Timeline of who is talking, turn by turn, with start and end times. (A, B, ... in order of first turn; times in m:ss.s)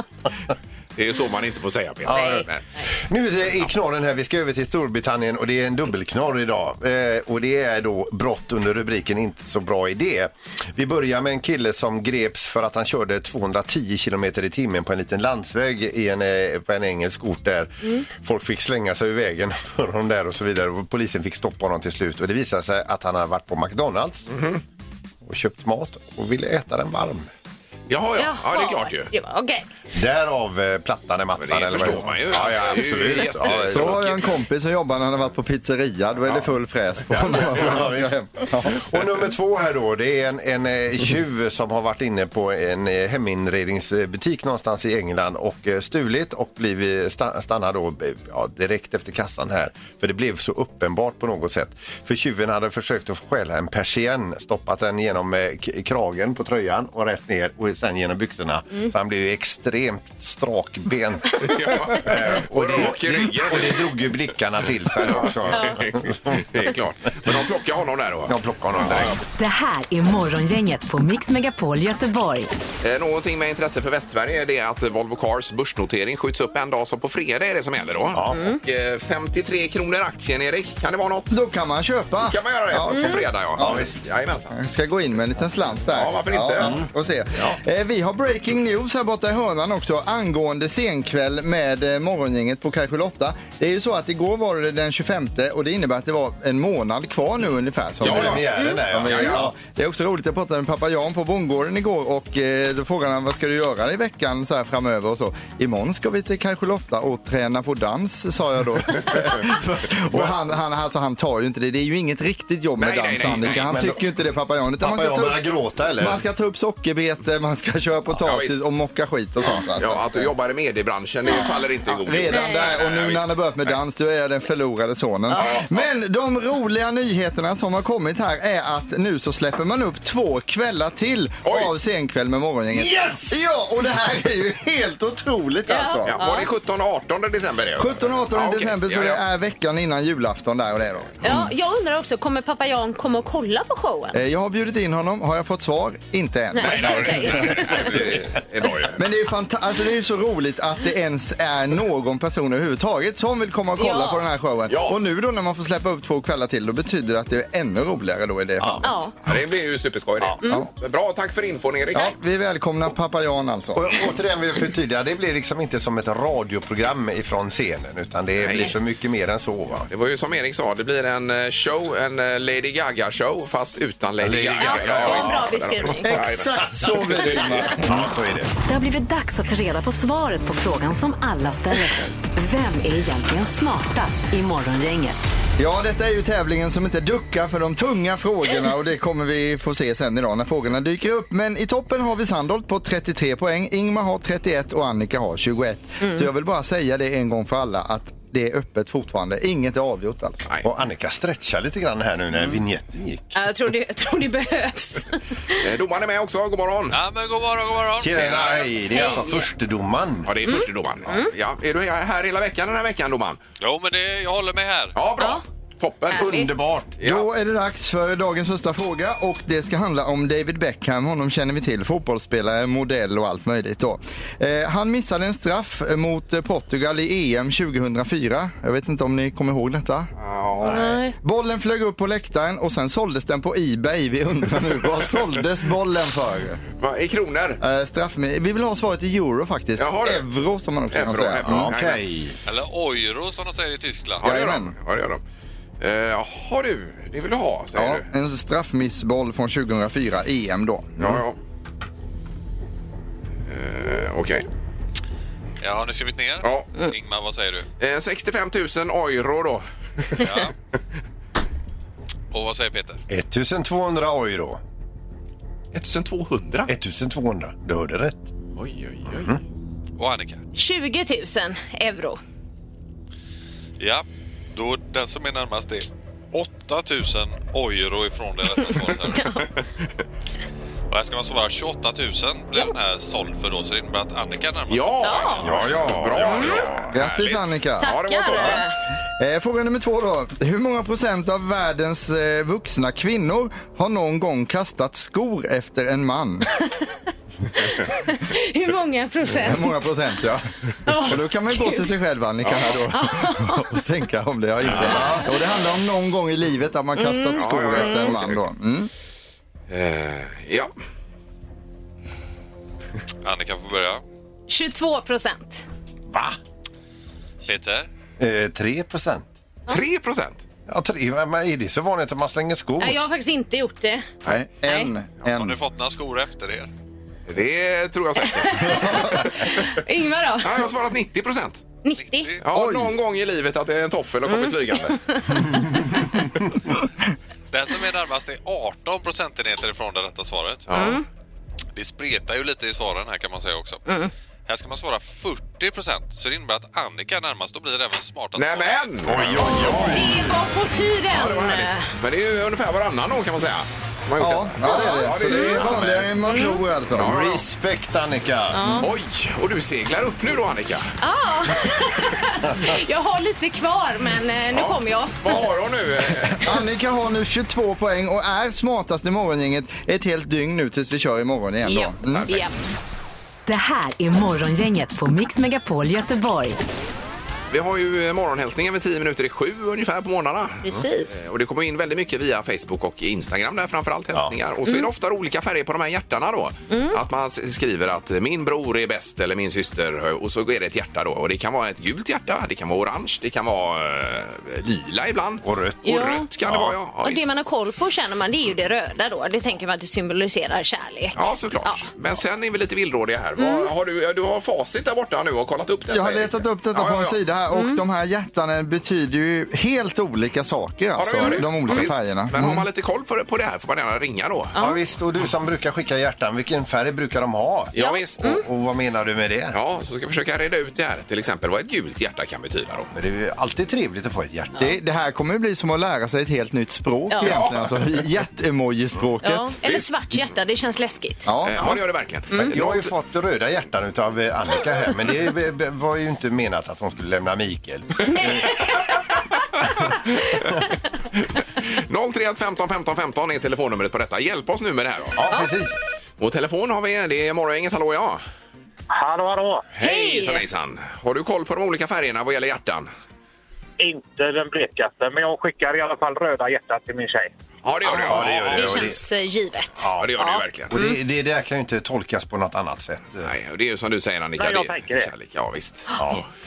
0:01.0-0:02.6 A
0:02.0-0:24.3 B
0:02.1-0:02.8 C
0:24.3-0:24.6 A
0:25.2-0:27.3 B
0:27.9-0:29.1 A
0:28.2-0:29.6 C
0:29.9-0:34.2 B
0:31.4-0:34.3 A
0:33.7-0:38.8 D
0:37.2-1:06.7 B
1:01.4-1:03.9 A
1:05.0-1:09.2 A
1:08.3-1:09.2 B
1:09.3-1:12.5 E
1:12.8-1:21.4 A
1:18.1-1:18.5 B
1:18.3-1:18.6 C
1:21.3-1:23.9 D
1:22.2-1:24.5 A
1:23.6-1:24.0 B
1:24.5-1:55.4 D
1:25.9-1:26.8 A
1:26.6-1:27.6 B
1:38.0-1:38.5 A
1:38.0-1:39.5 B
1:38.6-1:38.8 C
1:39.1-1:39.4 A
1:52.8-1:53.7 A
1:53.3-1:54.0 B
1:54.8-1:56.2 B
1:56.0-2:00.3 D
1:58.1-1:58.6 A
1:59.8-2:03.8 A
2:01.9-2:16.2 D
2:02.3-2:02.8 C
2:05.4-2:05.9 A
2:11.4-2:11.7 A
2:12.7-2:13.4 B
2:15.7-2:16.5 C
2:16.1-2:19.2 A
2:17.8-2:21.5 D
2:21.2-2:24.2 C
2:24.1-2:27.6 D
2:26.5-2:28.0 C
2:26.6-2:29.0 A
2:27.6-2:28.2 B
2:29.0-2:39.0 D
2:33.8-2:34.2 C
2:34.7-2:35.0 A
2:38.6-2:38.8 B
2:38.8-2:39.1 C
2:39.2-2:42.1 A
2:40.4-2:40.7 C
2:40.4-2:40.7 D
2:41.9-2:44.0 D
2:43.7-2:49.9 B
2:48.4-2:48.7 A
2:49.9-2:57.7 A
2:54.2-2:55.5 B
2:54.6-2:56.1 C
2:56.0-2:58.0 D
2:57.7-2:58.5 B
2:58.6-3:05.2 E
3:05.6-3:20.5 D
3:16.0-3:16.2 C
3:20.6-3:23.4 B
3:23.3-3:25.6 C
3:25.6-3:27.0 A
3:26.9-3:28.7 F
3:28.0-3:30.3 B
3:28.3-3:28.6 A
3:28.9-3:29.4 C
3:30.2-3:33.4 A
3:30.4-3:31.3 C
3:33.6-3:35.0 F
3:35.0-3:37.2 A
3:36.1-3:36.5 C
3:36.1-3:37.0 B
3:37.0-3:50.1 D
3:50.2-3:50.8 A
3:50.7-3:51.1 C
3:50.7-3:56.6 D
3:56.8-3:57.6 A
3:57.6-4:01.7 D
3:59.8-4:00.2 A
4:00.9-4:02.0 A
4:01.4-4:02.4 B
4:02.5-4:04.3 F
4:04.2-4:05.2 A
4:04.2-4:04.7 D
4:05.8-4:08.0 A
4:07.8-4:11.2 D
4:11.0-4:11.4 A
4:13.5-4:14.4 A
4:15.6-4:17.6 F
4:16.4-4:16.7 A
4:17.8-4:20.2 A
4:20.2-4:20.5 F
4:22.3-4:23.0 F
4:23.1-4:24.6 B
4:25.7-4:26.7 A
4:26.7-4:28.3 B
4:28.6-4:29.3 A
4:29.1-4:29.4 B
4:30.0-4:30.4 F
4:30.5-4:32.2 C
4:33.8-4:39.4 F
4:39.1-4:39.4 C
4:40.9-4:45.7 F
4:44.7-4:48.6 A
4:45.0-4:45.4 C
4:45.4-4:46.8 B
4:46.9-4:47.9 D
4:47.8-4:48.8 C
4:49.2-4:56.5 D
4:56.6-4:56.9 C
4:57.6-4:59.8 C
4:59.4-5:08.9 D
5:00.8-5:01.9 C
5:02.4-5:02.7 A
5:02.9-5:03.7 C
5:04.8-5:05.3 C
5:07.0-5:08.2 C
5:07.4-5:08.4 A
5:09.7-5:10.7 A
5:13.2-5:14.0 F
5:14.5-5:15.6 C
5:16.1-5:16.4 B
5:17.4-5:17.9 F
5:18.2-5:19.3 B
5:19.7-5:20.4 A
5:20.7-5:23.0 B
5:22.8-5:24.1 C
5:24.2-5:25.6 D
5:24.6-5:24.9 C
5:25.2-5:26.7 F
5:27.3-5:29.2 A
5:28.2-5:30.7 C
5:30.4-5:31.6 A
5:31.8-5:32.3 C
5:32.0-5:32.5 F
5:32.4-5:35.0 A
5:32.5-5:32.9 D
5:34.3-5:35.4 C
5:37.5-5:41.0 F
5:40.7-5:41.0 A
5:40.7-5:41.0 C
5:41.8-5:43.8 F
5:43.8-5:44.1 C
5:44.5-5:48.9 F
5:48.4-5:50.0 A
5:49.0-5:50.2 B
5:49.4-5:51.9 C
5:51.1-5:56.1 A
5:54.2-5:57.4 D
5:54.6-5:55.6 C
5:55.6-5:56.1 B
5:56.2-5:56.6 C
5:56.9-5:57.4 A
5:57.0-5:58.6 B
5:58.5-5:58.9 C
5:58.8-6:00.9 A
6:01.0-6:05.4 C
6:04.5-6:06.5 A
6:06.4-6:12.3 D
6:11.6-6:12.5 C
6:13.4-6:16.6 E
6:17.5-6:37.3 A
6:20.6-6:21.1 C
6:26.7-6:27.0 C
6:35.4-6:36.8 B
6:35.8-6:36.3 C
6:37.0-6:41.9 C
6:41.1-6:47.2 A
6:43.4-6:43.7 C
6:45.9-6:52.6 D
6:47.5-6:47.8 C
6:51.0-6:54.5 A
6:51.2-6:51.9 C
6:54.5-6:54.8 C
6:54.6-6:59.6 B
6:57.7-6:58.3 A
6:57.8-6:58.4 C
6:59.5-7:02.9 A
7:02.9-7:04.6 B
7:04.6-7:09.5 D
7:07.1-7:07.4 C
7:07.2-7:07.8 A
7:09.2-7:11.3 C
7:11.2-7:11.8 D
7:11.4-7:12.9 A
7:12.4-7:18.5 B
7:18.0-7:19.0 C
7:19.7-7:20.4 A
7:21.2-7:25.2 A
7:25.1-7:25.8 B
7:26.2-7:28.2 A
7:28.9-7:29.7 G
7:29.7-7:32.9 A
7:29.8-7:30.4 C
7:33.8-7:37.3 G
7:37.6-7:39.0 A
7:37.9-7:39.0 B
7:38.1-7:41.0 C
7:39.8-7:40.2 B
7:39.9-7:40.7 A
7:40.7-7:43.3 B
7:43.2-7:46.2 A
7:44.4-7:45.1 G
7:46.0-7:46.2 B